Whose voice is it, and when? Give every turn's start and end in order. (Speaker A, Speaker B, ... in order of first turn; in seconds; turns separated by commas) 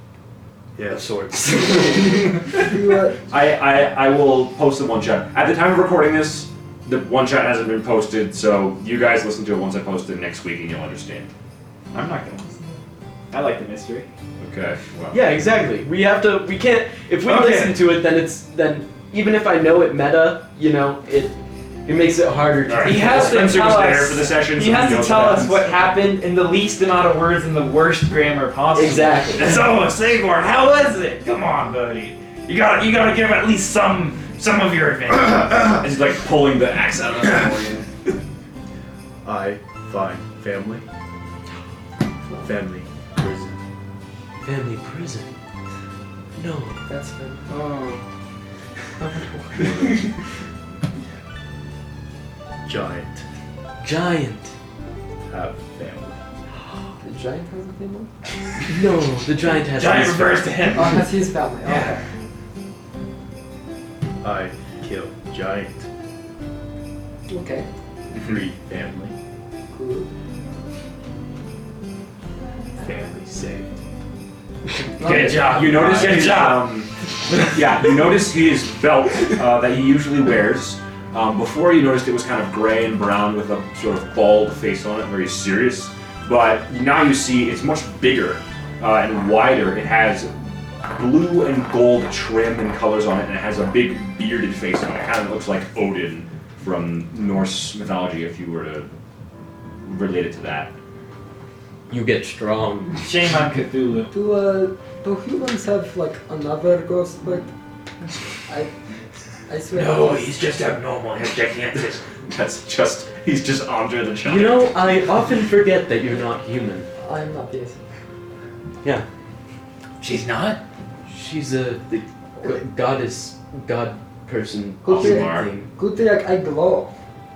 Speaker A: 0.8-1.6, Speaker B: 0.9-2.6, Speaker C: 2.5-3.2, Speaker D: 3.3-11.3, Speaker E: 11.9-12.5, Speaker E: 13.3-14.1, Speaker D: 14.4-15.3, Speaker B: 15.1-23.7, Speaker E: 17.2-17.8, Speaker D: 22.7-25.8, Speaker E: 22.7-35.8, Speaker B: 28.7-29.7, Speaker D: 35.7-37.9, Speaker A: 39.2-40.8, Speaker A: 42.4-43.6, Speaker B: 44.4-45.3, Speaker B: 46.4-46.8, Speaker C: 46.9-47.5, Speaker A: 47.5-48.0, Speaker C: 49.0-49.9, Speaker A: 49.6-50.1, Speaker A: 52.6-53.2, Speaker B: 53.8-54.5, Speaker A: 55.3-56.2, Speaker C: 57.0-58.1, Speaker B: 58.7-60.5, Speaker E: 59.7-61.1, Speaker C: 60.7-62.0, Speaker E: 61.6-61.9, Speaker A: 64.2-65.9, Speaker C: 67.3-67.7, Speaker A: 68.1-69.1, Speaker C: 69.7-70.1, Speaker A: 72.8-73.8, Speaker C: 75.0-75.7, Speaker E: 75.0-76.8, Speaker D: 75.3-90.3, Speaker D: 90.9-98.9, Speaker D: 99.8-100.7, Speaker B: 101.9-103.0, Speaker E: 103.0-104.1, Speaker C: 104.1-107.5, Speaker C: 109.5-110.4, Speaker E: 109.7-112.0, Speaker D: 112.3-114.8, Speaker B: 114.2-116.9, Speaker C: 117.0-117.8, Speaker E: 120.0-120.6, Speaker B: 121.1-125.7, Speaker C: 124.8-126.9, Speaker D: 124.9-125.5